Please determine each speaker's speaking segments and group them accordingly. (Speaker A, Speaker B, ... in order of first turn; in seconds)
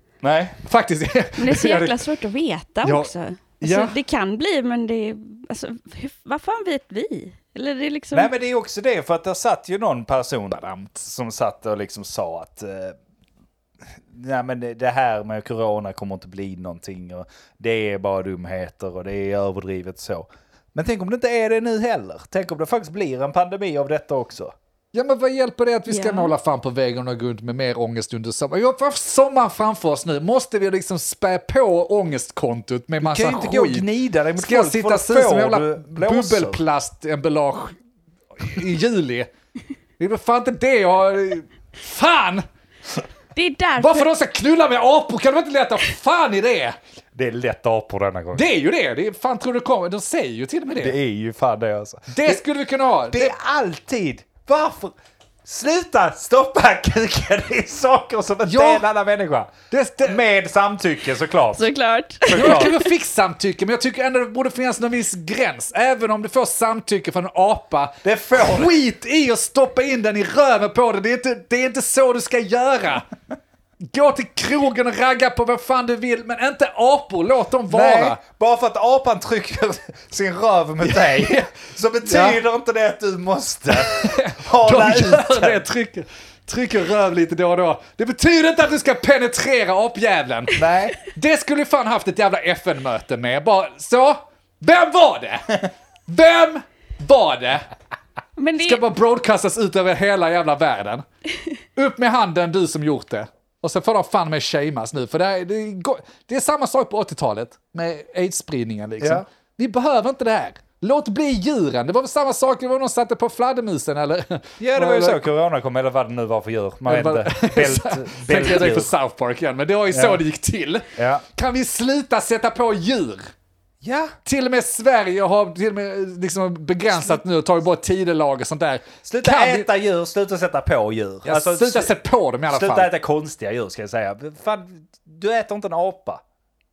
Speaker A: 0.2-0.6, 8.1-12.9, 14.1-24.5, 33.0-36.6, 47.1-48.5, 50.8-52.4, 53.1-61.7, 62.2-62.7, 68.0-68.7, 77.7-85.6, 90.5-91.0, 114.6-118.9, 119.9-120.2, 121.0-121.2, 123.8-124.2, 129.0-131.9, 132.5-136.2
Speaker B: 0.6-2.0, 2.8-4.0, 10.5-10.9, 24.9-37.8, 38.4-39.3, 40.0-42.5, 43.8-46.8, 48.3-51.0, 52.1-53.3, 58.5-58.8, 59.7-60.2, 62.3-73.0, 73.8-78.2, 80.8-81.5, 82.0-82.4, 83.7-97.7, 98.6-101.0, 101.8-115.3, 116.8-123.3, 124.2-129.7, 131.2-132.9
Speaker C: 1.4-8.3, 25.9-26.3, 43.3-44.1, 61.5-62.9, 98.4-98.8